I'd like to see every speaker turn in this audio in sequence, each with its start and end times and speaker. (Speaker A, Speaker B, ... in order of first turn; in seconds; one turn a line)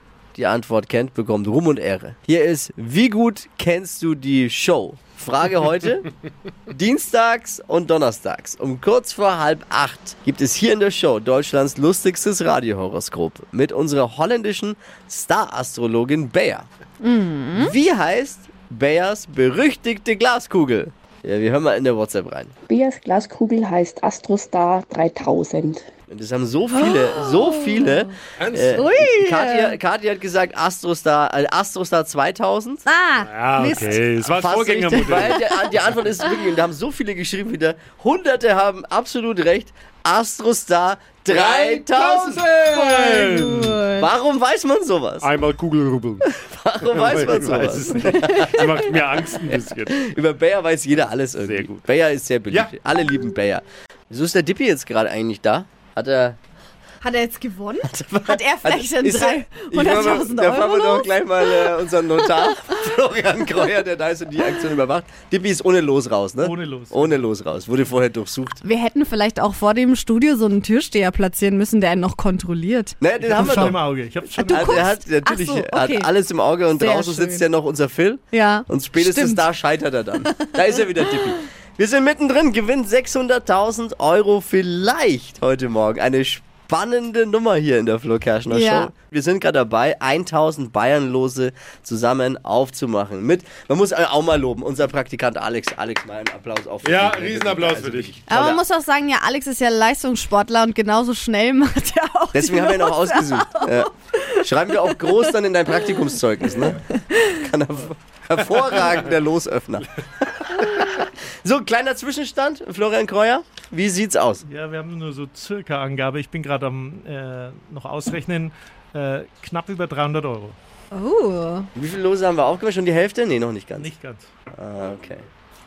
Speaker A: 0.3-6.1
Speaker A: 6.7-16.7
Speaker B: 17.0-17.8
Speaker A: 17.6-22.5
Speaker C: 22.7-25.9
Speaker A: 26.1-32.9
Speaker B: 26.8-27.9
Speaker D: 28.4-28.9
Speaker B: 28.7-29.8
Speaker B: 32.9-34.0
Speaker D: 33.2-35.4
Speaker A: 34.3-42.5
Speaker B: 34.9-35.4
Speaker D: 41.3-43.8
Speaker B: 42.7-44.0
Speaker A: 44.0-45.3
Speaker D: 45.2-46.3
Speaker A: 46.3-48.7
Speaker D: 46.9-50.0
Speaker B: 48.1-48.6
Speaker A: 49.5-56.4
Speaker D: 51.4-51.8
Speaker B: 57.0-61.8
Speaker A: 57.8-68.6
Speaker E: 66.4-67.2
Speaker B: 68.6-73.0
Speaker A: 73.0-73.8
Speaker E: 73.2-74.9
Speaker A: 74.4-98.6
Speaker B: 74.5-76.1
Speaker B: 76.7-77.5
Speaker B: 78.3-79.5
Speaker B: 80.2-80.6
Speaker B: 88.5-88.9
Speaker D: 96.8-98.2
Speaker B: 98.3-104.8
Speaker A: 102.3-103.9
Speaker A: 104.4-114.4
Speaker B: 106.9-107.3
Speaker E: 114.5-120.6
Speaker B: 120.9-121.7
Speaker A: 121.8-123.9
Speaker E: 123.8-124.3
Speaker A: 124.5-125.2